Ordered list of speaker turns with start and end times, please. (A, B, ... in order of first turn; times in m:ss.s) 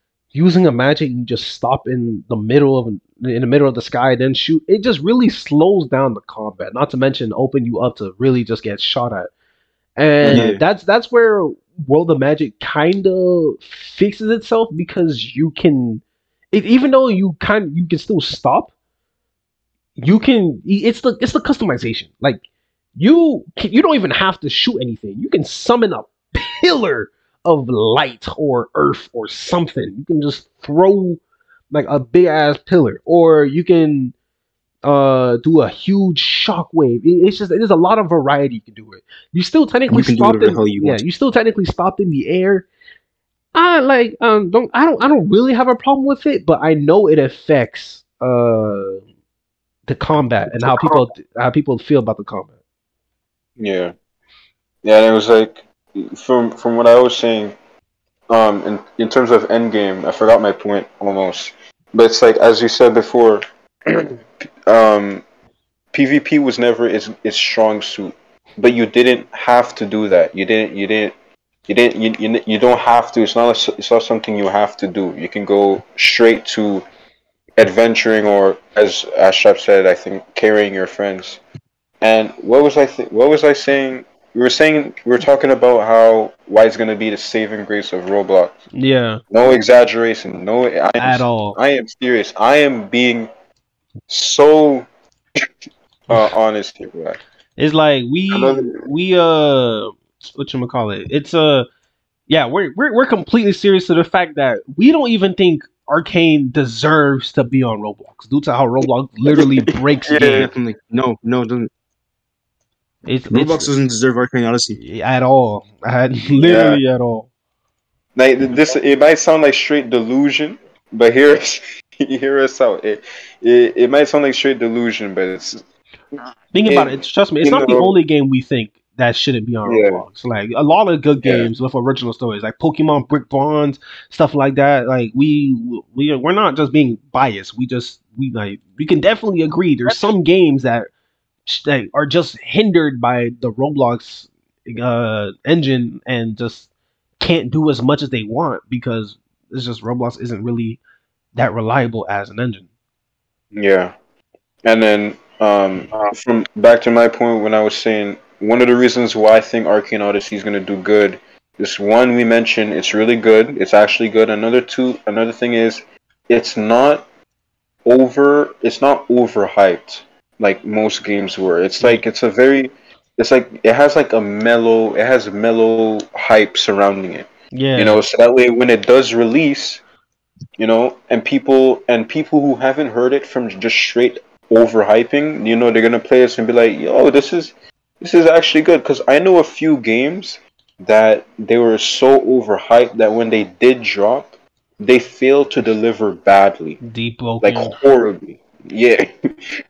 0:00.3-0:09.3 A
0:10.0-0:18.7 A
0:10.2-0:10.6 B
0:20.0-0:22.4 A
0:23.0-0:34.1 A
0:34.8-0:42.7 A
0:39.9-0:41.0 B
0:43.5-0:49.0 A
0:49.9-0:52.5 A
0:50.6-0:51.1 C
0:53.6-0:53.9 C
0:54.8-0:57.5 C
0:58.3-1:04.2 C
1:04.7-1:05.2 C
1:05.9-1:11.1 C
1:11.7-1:16.8 C
1:17.6-1:21.4 C
1:22.0-1:28.6 C
1:28.7-1:29.2 A
1:29.3-1:33.3 C
1:31.0-1:31.6 A
1:34.1-1:34.8 C
1:36.1-1:37.2 C
1:37.6-1:41.7 A
1:38.3-1:38.8 C
1:42.3-1:50.5 A
1:49.3-1:50.5 C
1:50.3-1:51.7 B
1:53.0-1:53.7 A
1:53.3-1:54.8 B
1:54.8-1:57.3 A
1:56.4-1:56.8 C
1:58.2-2:05.6 C
2:06.5-2:20.9 A
2:06.6-2:08.0 C
2:09.6-2:10.0 C
2:11.2-2:11.5 C
2:21.4-2:30.8 A
2:31.3-2:32.7 A
2:33.5-2:33.9 C
2:34.6-2:47.0 C
2:47.8-2:59.8 C
2:57.5-2:58.0 A
3:00.6-3:16.8 C
3:16.8-3:17.8 A
3:17.4-3:19.3 C